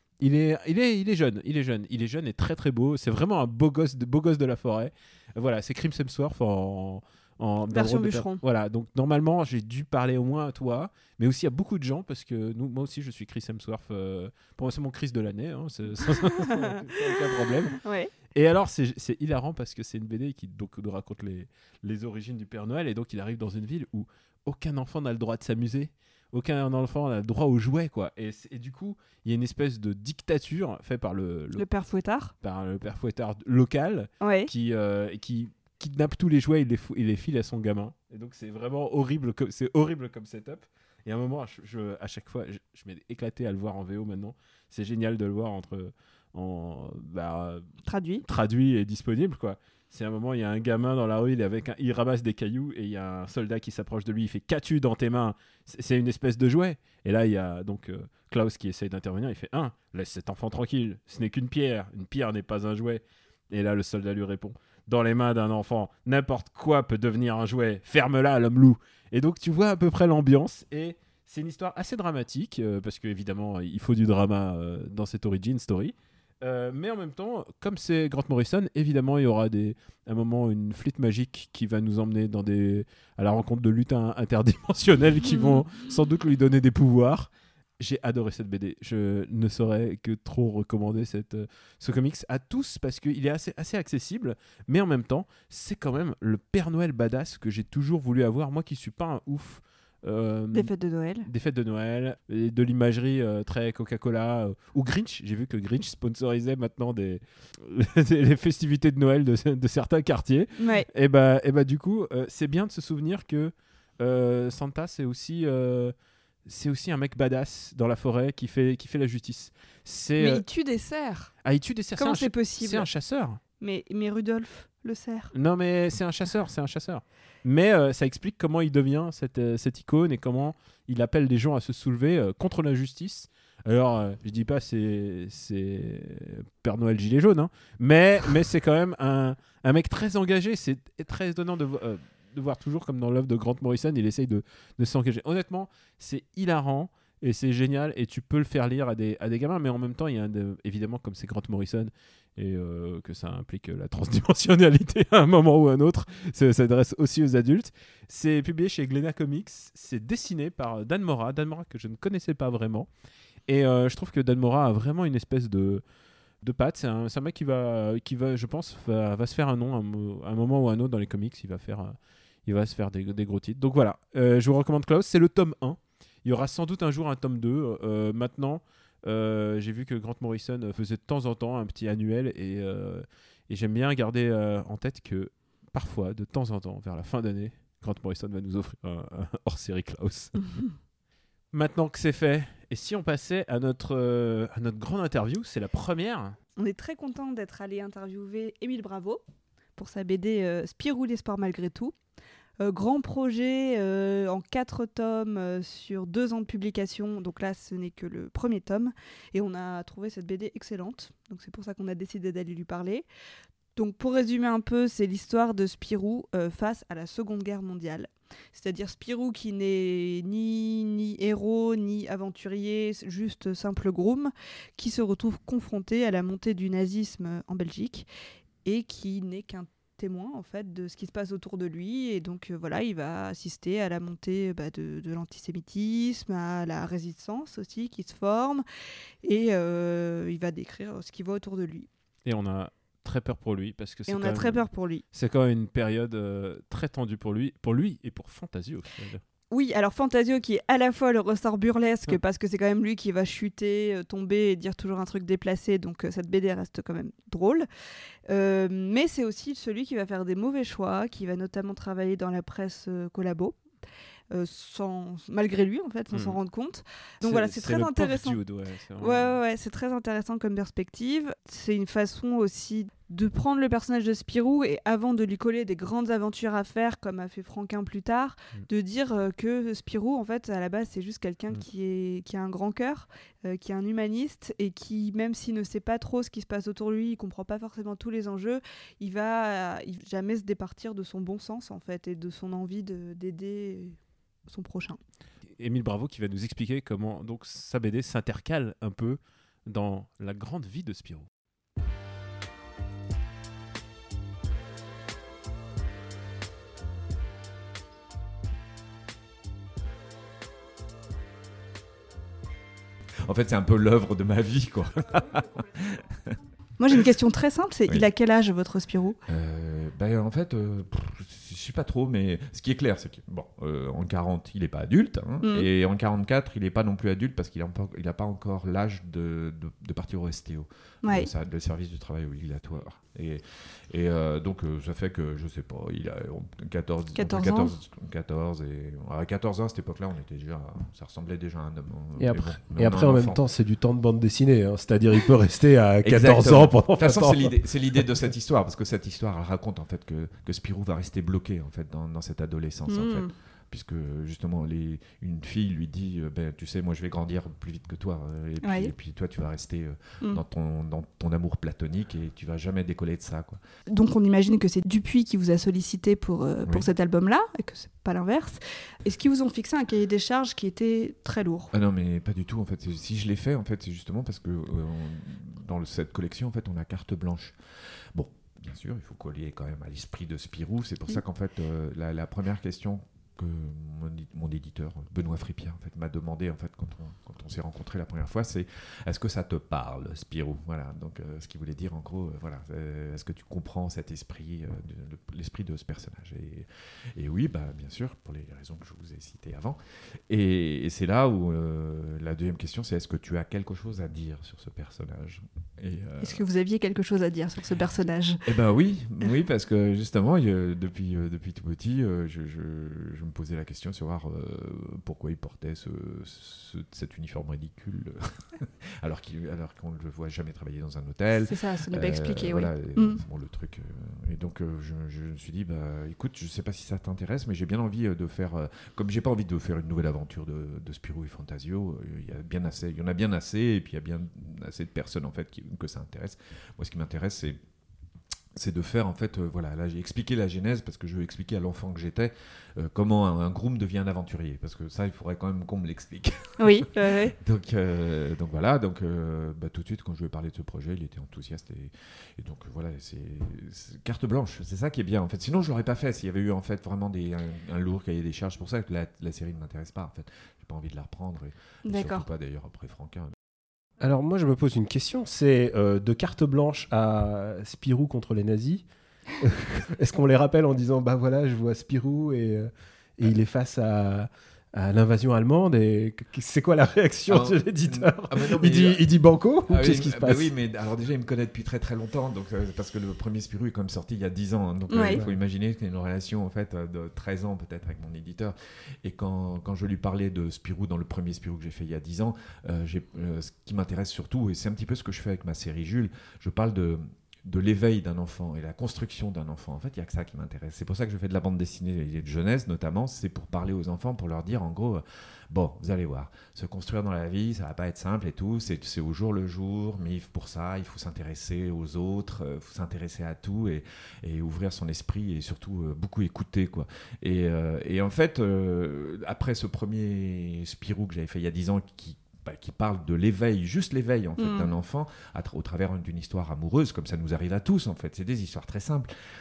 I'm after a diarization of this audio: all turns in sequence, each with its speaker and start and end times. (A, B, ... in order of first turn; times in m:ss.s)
0:00.2-0:31.6 A
0:07.7-0:08.4 B
0:16.5-0:18.1 B
0:31.6-0:32.3 B
0:32.4-0:47.7 A
0:34.2-0:34.5 B
0:47.9-0:48.2 B
0:48.2-1:40.7 A
1:40.5-1:41.3 B
1:41.2-1:55.9 A
1:50.6-1:50.9 B
1:56.5-2:00.4 A
2:00.2-2:01.3 B
2:01.4-2:03.4 A
2:02.0-2:02.9 B
2:03.6-2:05.3 B
2:05.3-2:42.9 A
2:43.5-2:45.8 A
2:46.4-3:10.6 A
3:11.5-3:16.4 A
3:16.6-3:19.2 B
3:19.8-3:21.9 B
3:22.6-3:33.1 B
3:33.8-3:48.1 B
3:48.6-3:58.6 B
3:59.2-4:01.9 B
4:02.2-4:09.2 A
4:04.1-4:05.0 B
4:09.5-4:17.7 B
4:18.3-4:23.6 B
4:24.3-4:28.4 B
4:26.1-4:26.4 A
4:27.2-4:29.4 A
4:29.0-4:55.0 B
4:55.6-5:01.3 A
5:13.2-5:16.4 C
5:16.8-5:19.2 B
5:19.3-5:43.4 C
5:25.4-5:25.7 B
5:37.2-5:37.7 B
5:42.2-5:47.6 D
5:46.0-6:03.6 C
5:52.9-5:53.3 B
5:58.6-5:58.9 B
6:03.9-6:11.7 B
6:11.7-6:17.6 C
6:18.1-6:46.4 C
6:46.2-6:48.4 B
6:48.4-7:17.6 C
7:01.4-7:03.2 B
7:18.6-7:43.4 C
7:26.6-7:27.4 B
7:41.9-7:42.3 B
7:44.0-7:48.8 D
7:49.4-8:00.5 D
7:57.3-7:59.0 C
7:59.7-8:49.1 C
8:04.9-8:05.2 B
8:44.4-8:44.7 B